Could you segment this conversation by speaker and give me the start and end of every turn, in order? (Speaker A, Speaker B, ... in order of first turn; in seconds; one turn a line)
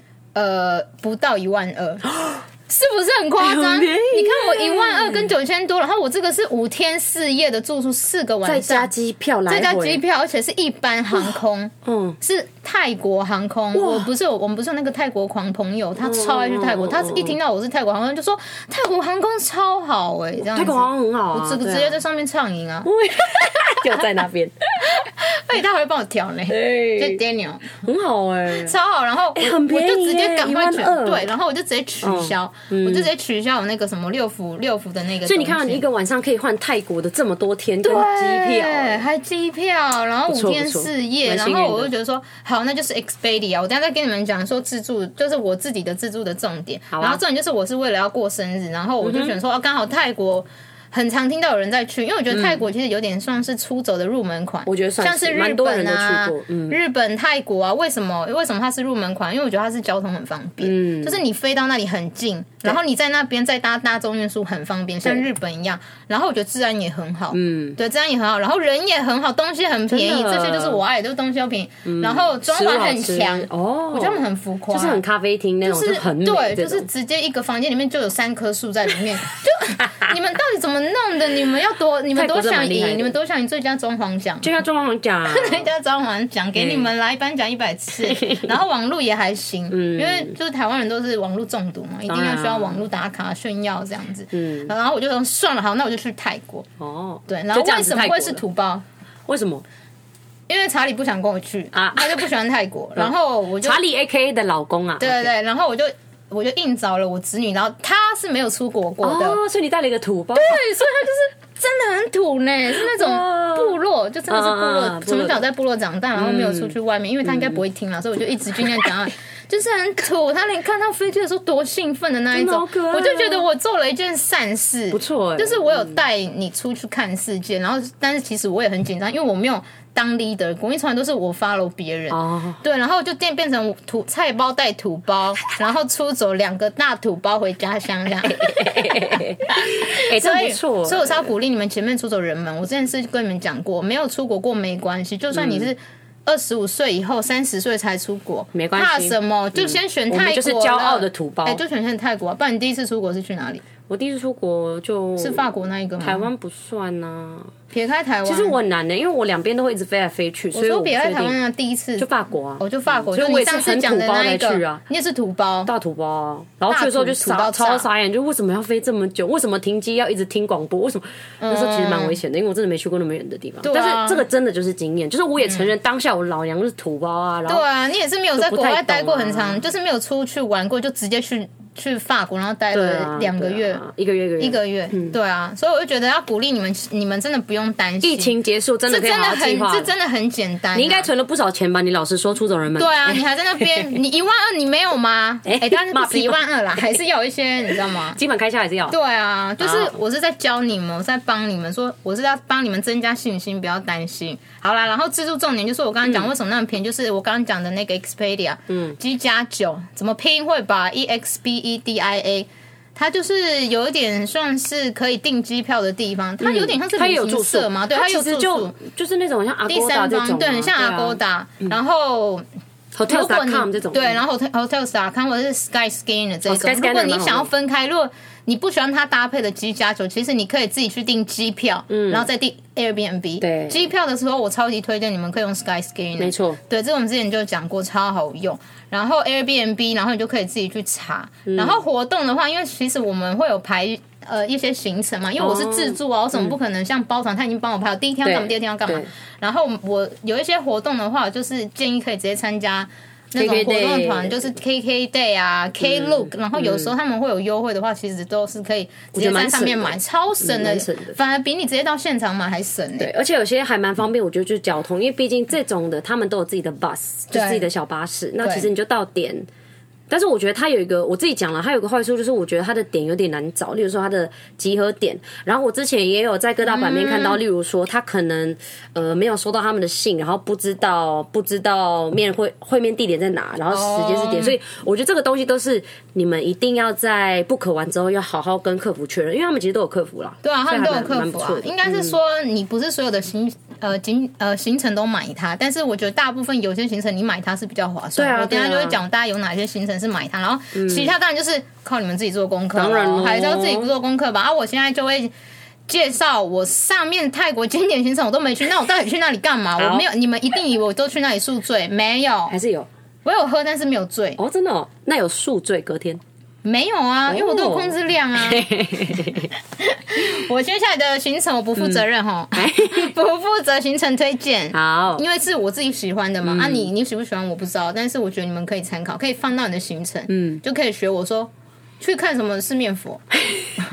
Speaker A: 0.3-2.0
Speaker B: 2.1-2.4
Speaker A: 2.7-8.9
Speaker B: 3.4-5.3
Speaker B: 8.4-10.0
Speaker A: 9.5-22.9
Speaker B: 11.8-12.2
Speaker B: 13.7-14.1
Speaker B: 16.0-17.4
Speaker B: 20.4-22.0
Speaker B: 22.8-24.9
Speaker A: 24.8-27.7
Speaker B: 26.5-27.2
Speaker B: 27.8-28.7
Speaker A: 28.6-35.8
Speaker B: 29.4-31.3
Speaker B: 32.0-33.1
Speaker B: 35.2-39.0
Speaker A: 37.8-75.0
Speaker B: 40.3-41.9
Speaker B: 46.9-47.2
Speaker B: 49.0-49.4
Speaker B: 52.3-52.6
Speaker B: 54.6-56.8
Speaker B: 60.6-61.2
Speaker B: 67.3-67.8
Speaker B: 69.9-70.8
Speaker B: 71.8-76.9
Speaker A: 75.6-84.5
Speaker B: 82.1-83.1
Speaker B: 84.4-85.7
Speaker A: 85.3-96.7
Speaker B: 86.5-86.9
Speaker B: 88.0-88.5
Speaker B: 89.7-90.3
Speaker B: 92.1-92.8
Speaker B: 94.3-94.7
Speaker B: 96.8-98.4
Speaker A: 97.3-98.8
Speaker B: 99.3-99.6
Speaker A: 100.5-103.8
Speaker B: 101.7-102.3
Speaker B: 103.0-105.3
Speaker A: 105.0-109.4
Speaker B: 109.0-110.6
Speaker A: 110.3-153.6
Speaker B: 112.7-113.8
Speaker B: 114.3-115.4
Speaker B: 116.1-117.6
Speaker B: 122.3-123.5
Speaker B: 124.9-125.9
Speaker B: 132.1-132.6
Speaker B: 138.3-141.3
Speaker B: 145.3-145.7
Speaker B: 148.5-151.6
Speaker B: 153.9-155.5
Speaker A: 155.2-156.3
Speaker B: 156.0-157.5
Speaker A: 157.7-158.6
Speaker B: 158.2-161.3
Speaker A: 160.5-162.1
Speaker B: 162.0-164.8
Speaker A: 162.6-165.7
Speaker B: 165.7-177.6
Speaker A: 166.7-167.9
Speaker A: 171.4-172.2
Speaker A: 173.6-174.2
Speaker A: 177.5-183.8
Speaker B: 178.3-179.7
Speaker B: 182.7-185.1
Speaker A: 184.4-188.3
Speaker B: 188.0-189.9
Speaker A: 188.9-191.1
Speaker B: 190.7-193.2
Speaker A: 192.8-198.2
Speaker B: 195.4-197.0
Speaker B: 198.1-198.9
Speaker A: 198.9-218.7
Speaker B: 199.6-199.9
Speaker B: 206.0-206.3
Speaker B: 208.7-208.9
Speaker B: 216.4-221.7
Speaker A: 219.7-222.4
Speaker B: 222.9-224.2
Speaker A: 223.1-263.1
Speaker B: 226.5-227.5
Speaker B: 231.9-232.3
Speaker B: 233.4-233.8
Speaker B: 236.2-236.6
Speaker B: 241.4-241.8
Speaker B: 245.4-246.5
Speaker B: 248.2-249.1
Speaker B: 253.3-254.5
Speaker B: 255.8-256.9
Speaker B: 259.1-261.1
Speaker B: 263.0-269.5
Speaker A: 267.3-267.7
Speaker A: 268.4-268.7
Speaker B: 270.1-292.1
Speaker A: 276.7-277.4
Speaker A: 283.7-284.6
Speaker A: 290.4-305.3
Speaker B: 298.2-299.0
Speaker B: 300.7-301.1
Speaker B: 302.8-303.9
Speaker A: 305.9-312.5
Speaker B: 309.8-310.1
Speaker B: 312.5-312.9
Speaker A: 313.2-314.4
Speaker B: 314.4-316.2
Speaker A: 316.6-333.2
Speaker B: 317.3-319.5
Speaker B: 321.8-322.0
Speaker B: 322.5-323.1
Speaker B: 324.7-325.2
Speaker B: 326.4-326.9
Speaker B: 330.3-330.6
Speaker B: 333.4-333.7